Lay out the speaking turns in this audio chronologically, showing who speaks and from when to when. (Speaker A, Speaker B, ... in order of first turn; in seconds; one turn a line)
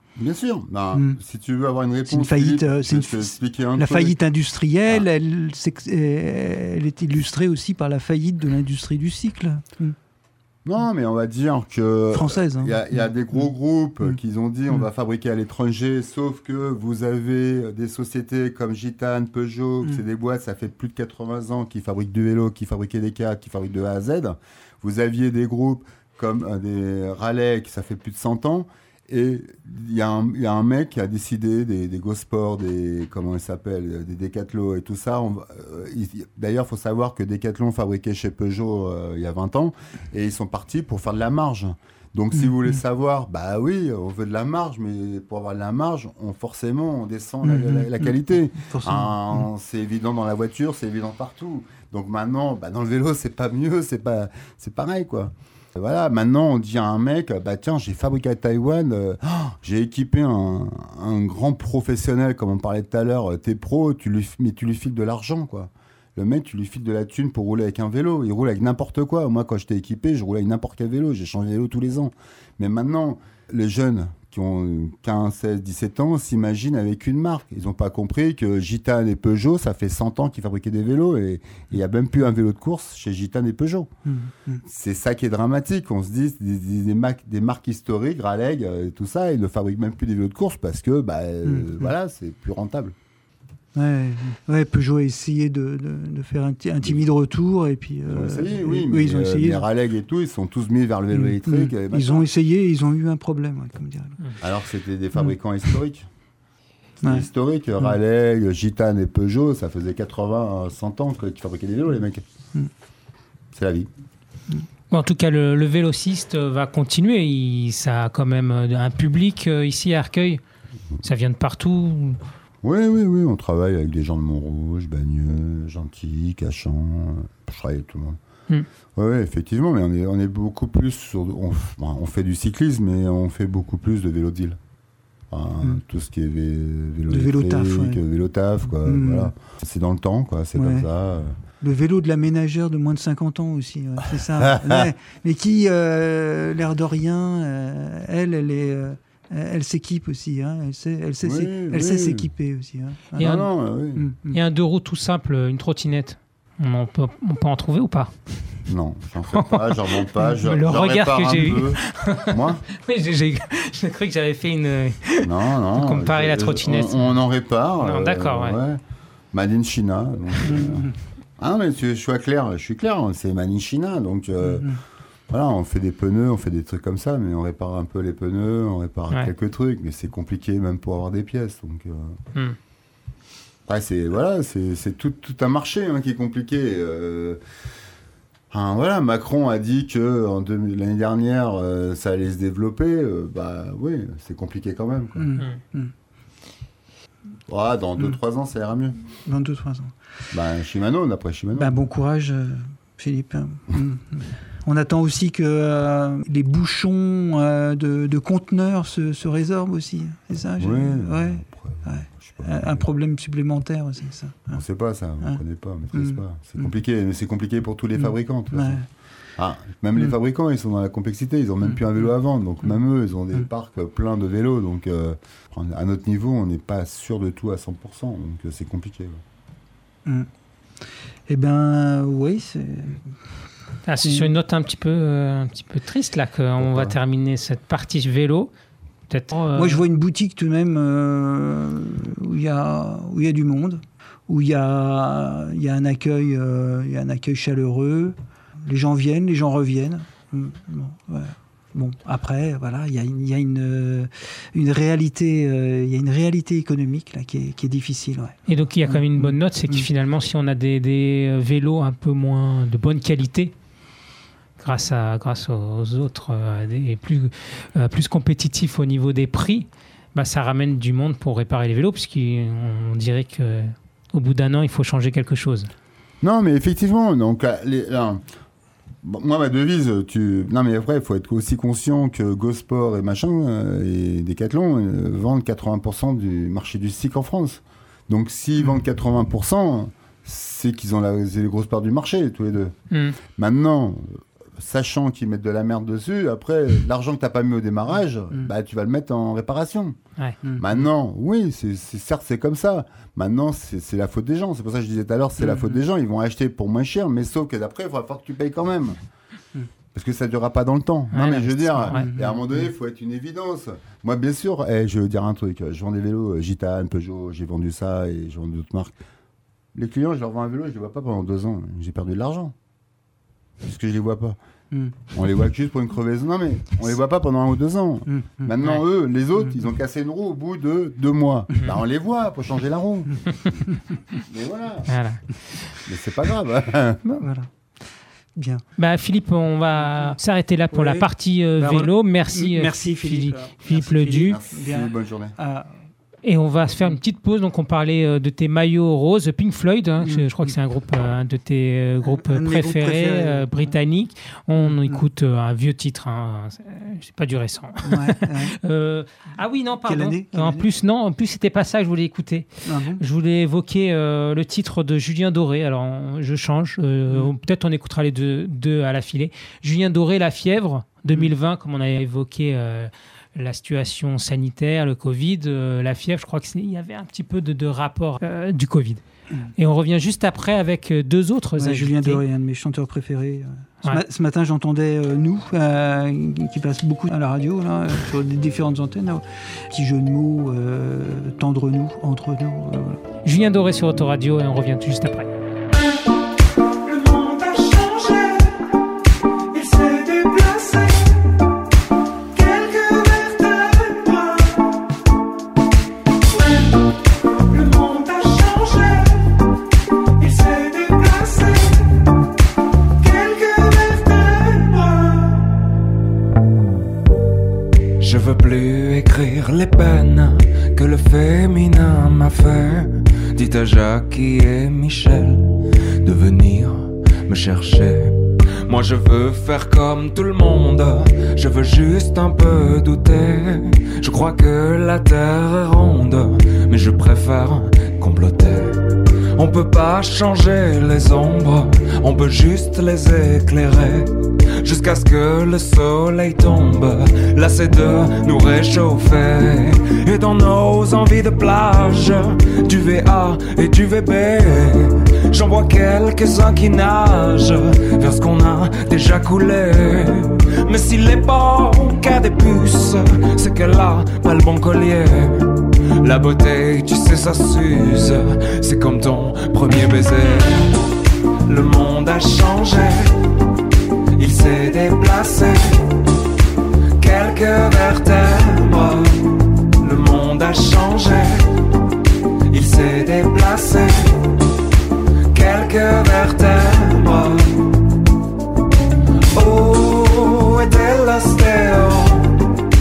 Speaker A: 0.2-4.2
Speaker B: 0.9-1.2
Speaker B: 2.1-9.9
Speaker A: 10.6-83.9
Speaker B: 12.1-13.0
Speaker B: 42.4-42.8
Speaker B: 47.4-49.4
Speaker B: 84.1-84.6
Speaker A: 84.6-92.9
Speaker B: 91.4-91.9
Speaker B: 93.7-99.6
Speaker A: 98.1-102.2
Speaker B: 101.1-104.2
Speaker A: 104.4-106.1
Speaker A: 107.0-112.2
Speaker A: 113.5-113.9
Speaker C: 114.9-120.4
Speaker C: 121.0-122.2
Speaker A: 122.6-128.2
Speaker A: 128.9-134.6
Speaker A: 135.3-141.4
Speaker B: 137.1-138.0
Speaker B: 138.8-139.3
Speaker B: 140.6-140.9
Speaker B: 141.6-153.3
Speaker A: 144.4-144.9
Speaker A: 151.2-152.3
Speaker A: 153.2-154.1
Speaker C: 153.2-153.5
Speaker B: 153.9-154.4
Speaker C: 154.3-158.1
Speaker A: 158.7-162.6
Speaker C: 159.3-167.2
Speaker A: 165.2-168.8
Speaker C: 167.8-168.6
Speaker A: 169.3-174.7
Speaker B: 170.4-170.9
Speaker B: 174.4-174.8
Speaker A: 175.3-182.2
Speaker A: 183.7-187.4
Speaker A: 188.5-195.3
Speaker B: 195.2-195.9
Speaker A: 197.5-199.0
Speaker B: 199.3-199.9
Speaker A: 200.3-201.8
Speaker B: 201.6-214.6
Speaker A: 210.6-212.8
Speaker A: 214.5-218.8
Speaker B: 215.9-216.7
Speaker B: 218.0-218.8
Speaker A: 219.4-229.2
Speaker B: 231.3-233.1
Speaker C: 233.9-238.5
Speaker A: 236.6-236.9
Speaker C: 239.1-239.8
Speaker B: 239.6-248.1
Speaker B: 248.7-259.9
Speaker C: 258.5-263.5
Speaker C: 264.6-275.7
Speaker A: 276.2-278.2
Speaker A: 279.0-292.7
Speaker C: 292.9-293.2
Speaker A: 293.3-300.0
Speaker B: 300.4-300.8
Speaker A: 300.6-309.0
Speaker B: 305.4-305.8
Speaker A: 309.9-318.9
Speaker C: 311.1-312.1
Speaker B: 311.9-312.4
Speaker A: 319.7-322.5
Speaker A: 323.6-324.4
Speaker A: 325.1-333.6
Speaker B: 328.1-328.5
Speaker A: 334.2-334.9
Speaker C: 334.9-335.8
Speaker A: 335.8-337.0
Speaker B: 337.2-337.5
Speaker B: 338.4-338.6
Speaker C: 338.8-344.4
Speaker B: 339.8-340.2
Speaker B: 340.7-345.7
Speaker A: 344.3-345.4
Speaker C: 346.2-379.0
Speaker B: 350.0-350.5
Speaker B: 352.0-353.7
Speaker B: 354.6-355.0
Speaker B: 357.8-358.5
Speaker B: 359.8-360.7
Speaker B: 362.6-363.0
Speaker C: 379.6-382.2
Speaker B: 381.6-393.0
Speaker C: 393.2-395.3
Speaker D: 396.9-398.5
Speaker D: 399.5-401.1
Speaker D: 402.3-404.5
Speaker D: 407.4-409.3
Speaker D: 410.2-412.0
Speaker D: 413.0-415.4
Speaker D: 418.0-470.8
Speaker D: 471.4-473.1
Speaker D: 474.2-475.8
Speaker D: 477.0-479.2
Speaker D: 479.8-481.5
Speaker D: 482.5-484.3
Speaker D: 485.3-487.6
Speaker D: 489.3-492.4